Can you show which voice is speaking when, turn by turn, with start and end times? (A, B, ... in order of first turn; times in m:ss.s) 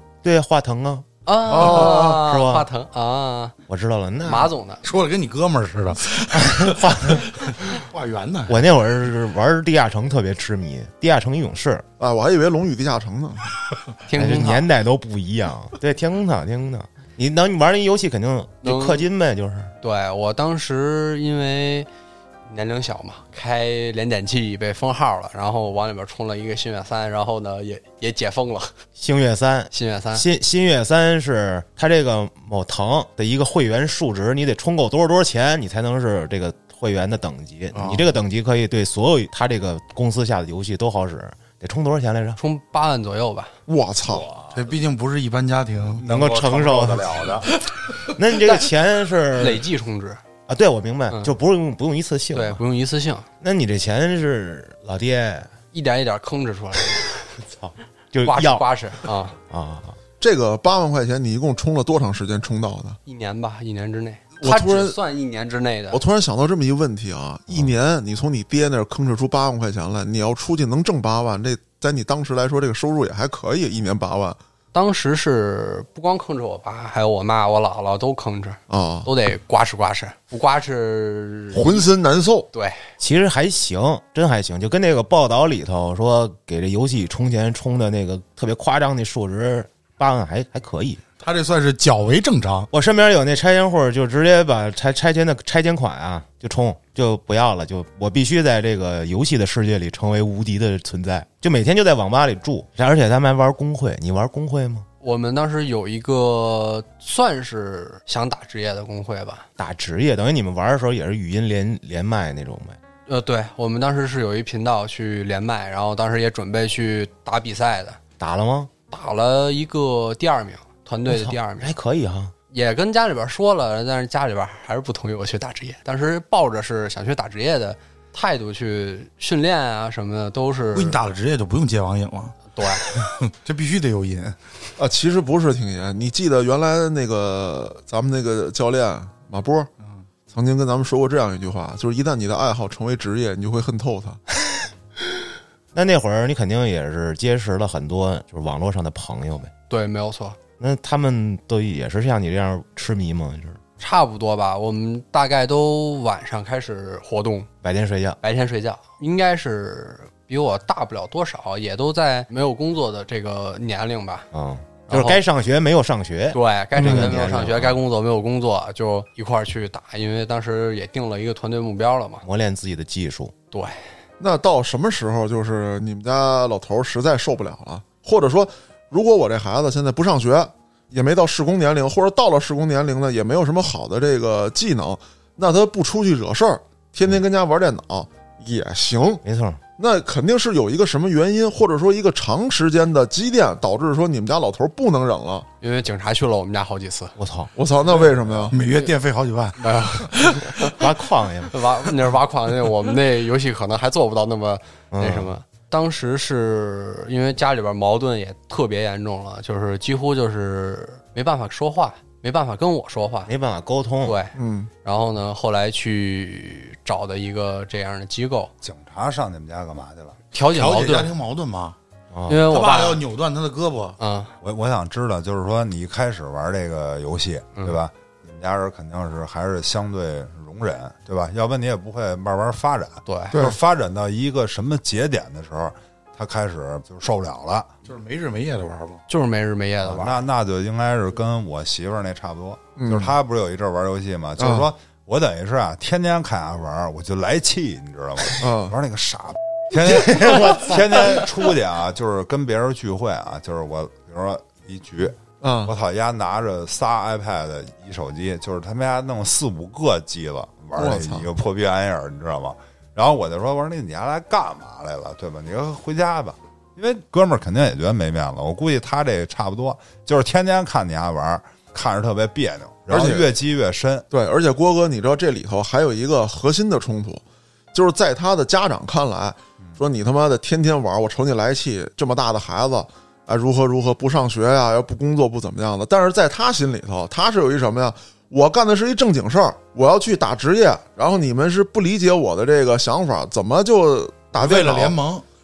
0:00.2-0:02.7 A
0:01.3-0:03.6 B
0:01.6-0:02.1 C
0:03.7-0:04.5 A
0:04.2-0:04.8 B
0:04.8-0:08.6 C
0:06.4-0:07.3 A
0:08.5-0:11.8 A
0:12.0-0:13.5 D
0:14.1-0:14.7 B
0:14.1-0:19.7 A
0:18.6-0:19.1 B
0:19.8-0:21.9 B
0:22.5-0:28.7 B
0:29.0-0:42.4 A
0:29.7-0:30.3 B
0:37.7-0:38.1 C
0:42.4-0:43.5 B
0:43.7-0:44.3 D
0:44.1-0:44.6 E
0:44.5-0:46.0 C
0:46.0-0:47.5 E
0:46.0-0:47.2 A
0:47.5-0:48.2 C
0:48.2-0:49.6 A
0:49.4-0:50.2 B
0:50.5-0:52.6 A
0:52.3-0:53.3 B
0:53.4-0:55.5 A
0:55.7-0:57.3 B
0:57.4-0:58.6 A
0:58.2-0:59.4 B
0:59.5-1:00.0 A
1:00.2-1:03.0 D
1:03.1-1:06.0 B
1:04.4-1:05.0 D
1:05.9-1:14.4 D
1:14.7-1:21.9 B
1:18.7-1:19.1 D
1:21.5-1:22.5 D
1:22.5-1:22.8 B
1:23.0-1:31.0 A
1:31.2-1:32.7 C
1:32.7-1:44.9 A
1:45.0-1:49.5 B
1:49.6-1:52.8 A
1:53.1-1:58.0 B
1:58.2-1:58.7 A
1:58.9-2:01.7 B
2:01.1-2:02.3 A
2:02.5-2:11.0 B
2:10.7-2:14.4 C
2:12.5-2:12.9 B
2:14.8-2:19.7 D
2:20.3-2:24.2 D
2:25.7-2:29.5 A
2:29.7-2:30.4 B
2:30.6-2:33.6 A
2:33.8-2:37.5 B
2:37.6-2:38.2 A
2:38.2-2:44.3 B
2:44.3-2:47.8 A
2:44.9-2:45.2 B
2:46.3-2:52.2 B
2:52.2-2:53.3 A
2:53.5-2:53.8 B
2:54.2-3:09.2 D
3:09.2-3:09.6 A
3:09.8-3:15.5 D
3:15.6-3:17.1 B
3:17.2-3:17.5 A
3:17.6-3:18.6 D
3:18.5-3:20.5 C
3:19.6-3:20.7 B
3:20.7-3:21.6 A
3:21.5-3:33.3 B
3:24.9-3:25.3 A
3:33.3-3:34.2 A
3:34.0-3:38.5 B
3:34.4-3:34.7 D
3:38.6-3:40.2 E
3:40.3-3:41.1 B
3:40.5-3:41.8 C
3:42.1-3:42.5 A
3:42.3-3:43.0 B
3:42.4-3:44.0 C
3:44.0-3:44.3 B
3:44.4-3:57.7 E
3:53.1-3:53.4 B
3:53.3-3:53.6 D
3:57.9-3:59.0 C
3:59.1-4:00.2 B
3:59.8-4:34.1 E
4:02.8-4:03.2 D
4:04.4-4:04.7 D
4:08.4-4:08.8 D
4:09.8-4:11.3 A
4:15.4-4:15.7 D
4:20.8-4:21.3 D
4:32.9-4:33.3 D
4:34.1-4:37.2 D
4:37.7-4:55.0 D
4:54.4-4:55.2 C